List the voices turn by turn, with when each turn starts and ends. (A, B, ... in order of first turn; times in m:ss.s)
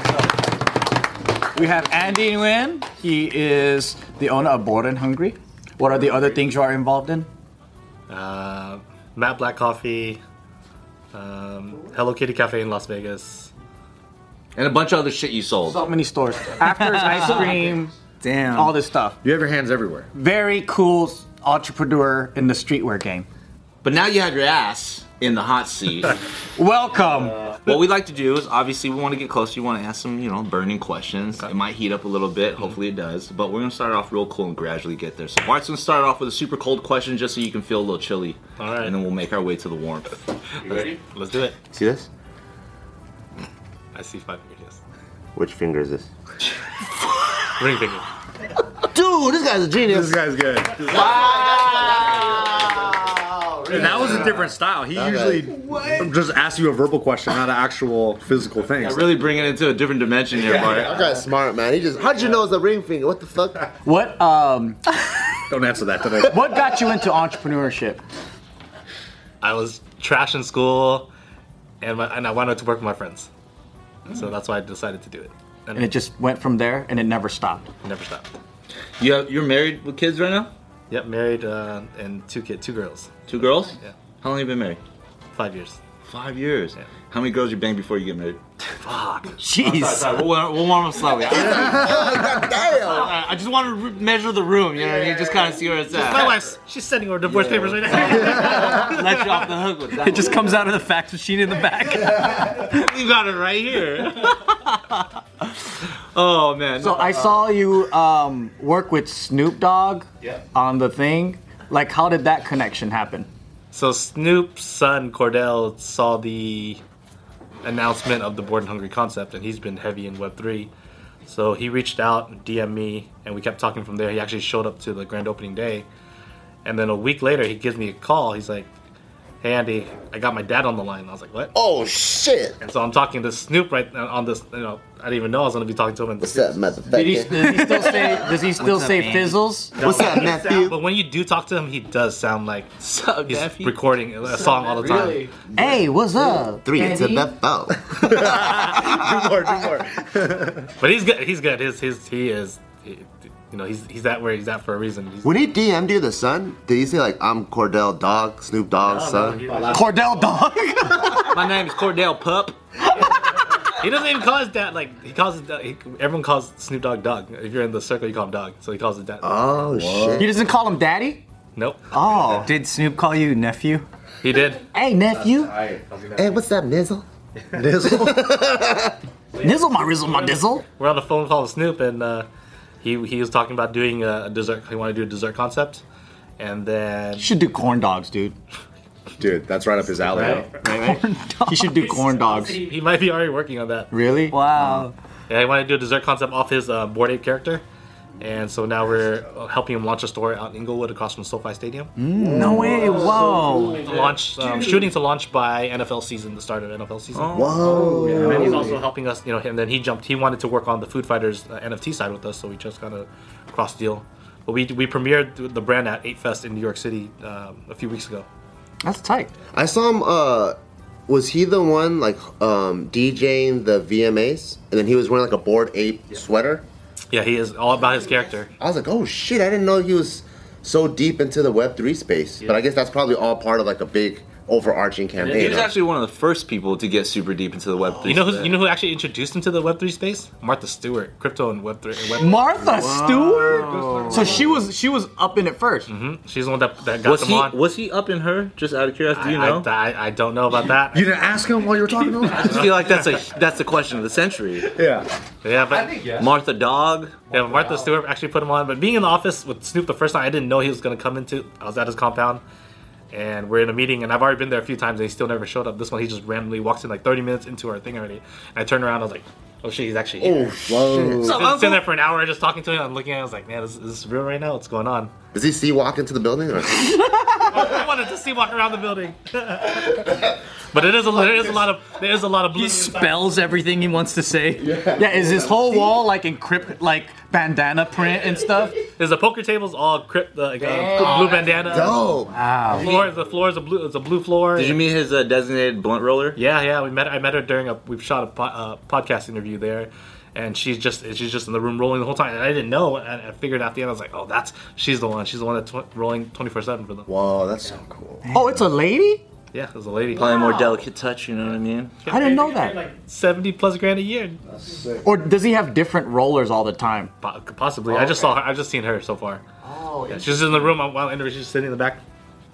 0:01.5-0:07.3 A
0:08.1-0:10.2 B
0:11.1-0:13.5 B
0:14.6-0:15.8 C
0:15.6-0:17.9 A
0:17.0-0:17.2 C
0:17.1-0:17.6 D
0:18.2-0:18.8 D
0:18.5-0:19.2 A
0:19.2-0:20.1 E
0:20.1-0:23.3 A
0:23.8-0:26.2 C
0:26.6-0:27.4 A
0:27.6-0:40.9 C
0:38.6-0:39.0 B
0:40.6-0:41.6 B
0:41.7-0:42.1 F
0:44.0-0:44.8 B
0:45.4-0:46.1 F
0:47.6-0:48.0 B
0:48.9-0:50.2 F
0:49.9-0:51.1 E
0:50.9-0:55.5 F
0:51.0-0:52.2 C
0:53.7-0:59.2 E
0:58.8-1:01.0 C
1:00.5-1:03.7 F
1:03.8-1:04.9 A
1:05.5-1:06.5 E
1:06.3-1:08.0 A
1:09.4-1:11.1 B
1:11.8-1:13.3 B
1:14.1-1:15.9 B
1:15.8-1:17.7 A
1:17.8-1:18.3 B
1:19.0-1:20.5 C
1:20.9-1:23.9 B
1:23.3-1:24.8 C
1:25.4-1:25.8 B
1:26.1-1:28.4 C
1:28.8-1:29.4 B
1:29.4-1:30.1 A
1:29.6-1:36.5 C
1:31.3-1:33.1 F
1:35.9-1:39.4 B
1:37.3-1:40.6 C
1:40.0-1:42.6 A
1:42.6-1:44.6 C
1:46.1-1:47.4 C
1:46.8-1:53.3 A
1:53.7-1:56.8 B
1:57.6-2:00.7 B
2:01.2-2:05.9 B
2:06.6-2:08.7 B
2:09.4-2:11.5 B
2:11.5-2:12.6 F
2:12.6-2:16.6 B
2:16.2-2:17.6 F
2:16.9-2:19.8 A
2:17.0-2:19.5 D
2:19.8-2:22.7 B
2:19.8-2:20.8 F
2:22.8-2:23.8 C
2:23.3-2:25.3 B
2:24.4-2:25.3 D
2:25.5-2:27.3 A
2:26.6-2:29.5 F
2:28.4-2:28.7 E
2:30.8-2:35.3 B
2:35.2-2:39.5 F
2:38.8-2:40.0 B
2:39.5-2:39.8 E
2:39.7-2:41.4 A
2:41.1-2:42.6 C
2:43.8-2:49.7 B
2:49.2-2:50.4 F
2:49.8-2:50.2 C
2:50.2-2:51.2 A
2:51.6-2:52.4 B
2:52.0-2:52.5 A
2:52.4-2:53.9 D
2:54.2-2:54.7 B
2:54.7-2:55.6 A
2:55.4-2:55.8 E
2:55.8-2:56.4 B
2:56.2-2:57.1 F
2:57.6-2:58.1 E
2:57.7-2:59.0 F
2:59.4-3:02.3 B
2:59.4-3:00.6 A
3:02.8-3:05.8 B
3:06.4-3:07.3 B
3:07.2-3:08.4 A
3:09.2-3:10.5 E
3:10.1-3:12.6 A
3:10.1-3:12.2 D
3:12.4-3:13.9 B
3:13.9-3:14.9 A
3:14.3-3:14.9 D
3:15.3-3:17.6 B
3:18.2-3:21.9 B
3:22.2-3:24.8 E
3:22.2-3:23.9 A
3:22.3-3:23.8 D
3:23.8-3:38.3 B
3:27.1-3:28.0 C
3:27.3-3:28.7 F
3:27.6-3:28.8 E
3:38.8-3:39.3 A
3:39.5-3:40.6 F
3:41.1-3:46.6 F
3:47.1-3:48.5 B
3:48.6-3:55.8 F
3:55.2-3:58.6 C
3:58.0-4:02.4 B
4:02.2-4:05.9 A
4:02.6-4:03.7 D
4:03.5-4:04.5 E
4:05.9-4:07.6 B
4:07.0-4:09.7 C
4:09.1-4:11.1 B
4:10.9-4:12.8 E
4:12.3-4:14.8 C
4:14.7-4:15.1 E
4:15.4-4:16.0 B
4:15.7-4:16.3 E
4:16.2-4:17.2 C
4:17.3-4:22.4 B
4:23.1-4:35.1 B
4:30.2-4:31.5 F
4:35.3-4:37.0 F
4:37.4-4:43.3 B
4:42.6-4:44.8 D
4:42.8-4:48.8 A
4:49.0-4:52.0 B
4:50.7-4:51.4 D
4:51.0-4:51.3 A
4:51.6-4:52.4 F
4:52.3-4:52.9 D
4:52.7-4:54.8 B
4:54.6-4:56.4 C
4:56.4-5:07.1 B
5:07.1-5:08.2 F
5:08.3-5:09.2 A
5:09.5-5:10.6 B
5:10.1-5:12.0 C
5:12.0-5:14.4 B
5:12.1-5:12.8 A
5:14.5-5:15.0 E
5:15.0-5:17.1 A
5:17.2-5:19.4 B
5:19.6-5:20.6 A
5:20.1-5:22.0 B